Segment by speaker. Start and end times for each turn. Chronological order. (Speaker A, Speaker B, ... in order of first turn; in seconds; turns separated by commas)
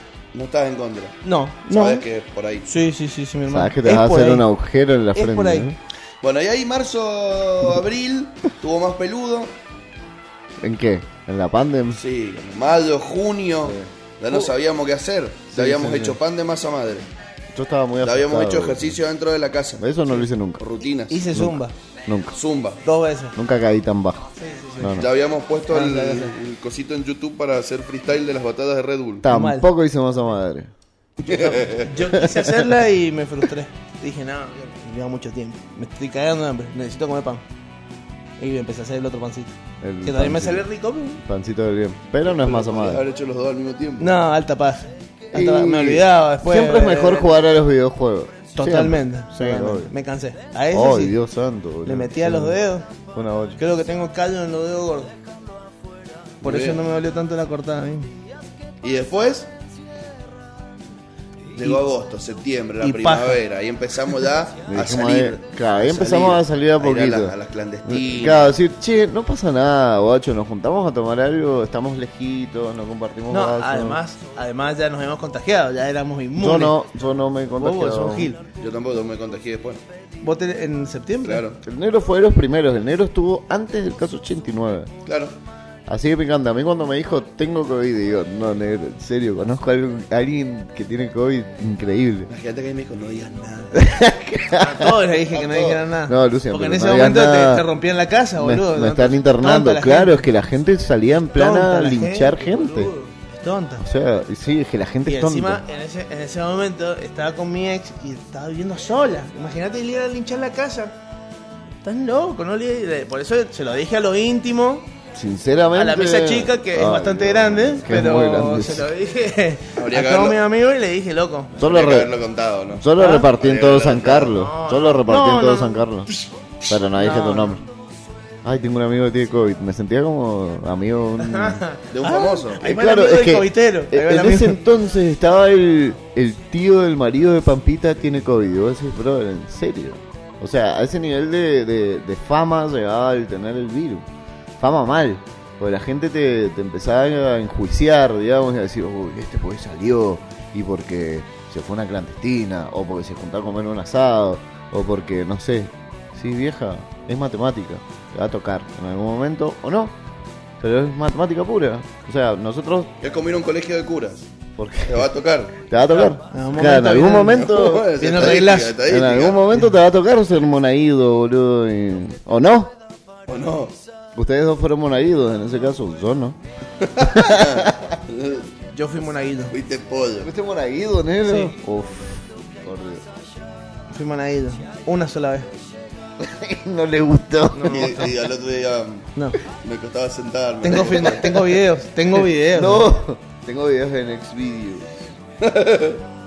Speaker A: 0.3-2.7, Speaker B: 1.2-2.0, Speaker B: 2.6-4.5, Speaker C: 3.5-5.8, Speaker B: 5.1-5.7, Speaker A: 6.2-9.5, Speaker C: 10.6-12.0, Speaker A: 11.9-17.1, Speaker C: 13.6-13.9, Speaker C: 15.5-16.2, Speaker C: 17.5-19.0, Speaker A: 18.0-19.9, Speaker C: 19.8-20.6, Speaker A: 20.6-21.2, Speaker B: 21.1-21.7, Speaker C: 21.3-22.4, Speaker A: 22.3-22.8, Speaker B: 22.8-23.3, Speaker C: 23.3-25.1, Speaker B: 24.4-25.0, Speaker A: 24.9-29.2, Speaker B: 25.7-26.3, Speaker C: 29.2-30.7, Speaker B: 29.2-29.7, Speaker B: 31.2-37.4, Speaker A: 31.3-31.9, Speaker C: 32.0-32.6, Speaker B: 38.4-41.2, Speaker C: 39.8-43.0, Speaker A: 42.2-44.2, Speaker B: 44.0-47.4, Speaker C: 45.3-49.9, Speaker B: 48.5-51.2, Speaker C: 50.7-52.6, Speaker B: 51.8-52.9, Speaker C: 53.1-53.6, Speaker B: 53.6-55.1, Speaker A: 56.4-56.8, Speaker B: 56.4-58.1, Speaker A: 58.8-59.5, Speaker A: 61.5-68.5, Speaker B: 61.5-61.8, Speaker B: 62.8-63.4, Speaker C: 64.7-74.0, Speaker B: 73.3-76.8, Speaker C: 76.3-78.3, Speaker B: 77.6-78.4, Speaker A: 78.6-79.8, Speaker B: 80.2-81.4, Speaker A: 81.2-81.6, Speaker C: 81.6-84.9, Speaker A: 85.0-85.3, Speaker C: 85.9-92.3, Speaker A: 92.3-93.9, Speaker C: 93.7-97.7, Speaker B: 94.6-100.3, Speaker C: 98.3-102.9, Speaker B: 101.3-103.8, Speaker C: 103.8-105.6, Speaker B: 105.0-110.9, Speaker B: 111.8-114.9, Speaker C: 115.1-118.9, Speaker B: 115.7-121.5, Speaker A: 119.8-120.4, Speaker C: 121.6-122.1, Speaker A: 121.6-124.4, Speaker C: 122.8-126.1, Speaker B: 123.0-123.2, Speaker B: 124.3-125.8, Speaker C: 126.7-127.6, Speaker B: 127.0-127.6, Speaker C: 128.4-131.6, Speaker B: 131.2-134.6, Speaker A: 131.9-132.6, Speaker C: 132.6-144.1, Speaker C: 144.6-159.9, Speaker C: 160.6-162.9, Speaker A: 163.0-164.3, Speaker C: 164.6-168.0, Speaker A: 164.8-165.6, Speaker B: 165.9-168.8, Speaker A: 167.2-169.4, Speaker C: 168.8-172.7, Speaker A: 173.3-173.7, Speaker C: 174.1-176.4, Speaker A: 176.8-178.5, Speaker C: 177.0-178.0, Speaker B: 178.7-179.5, Speaker A: 179.5-180.3, Speaker C: 180.2-183.1, Speaker B: 181.2-181.5, Speaker B: 183.9-185.5, Speaker C: 186.2-188.1, Speaker B: 187.5-188.1, Speaker A: 187.7-191.5, Speaker B: 190.6-192.9, Speaker C: 192.5-195.1, Speaker A: 195.4-196.0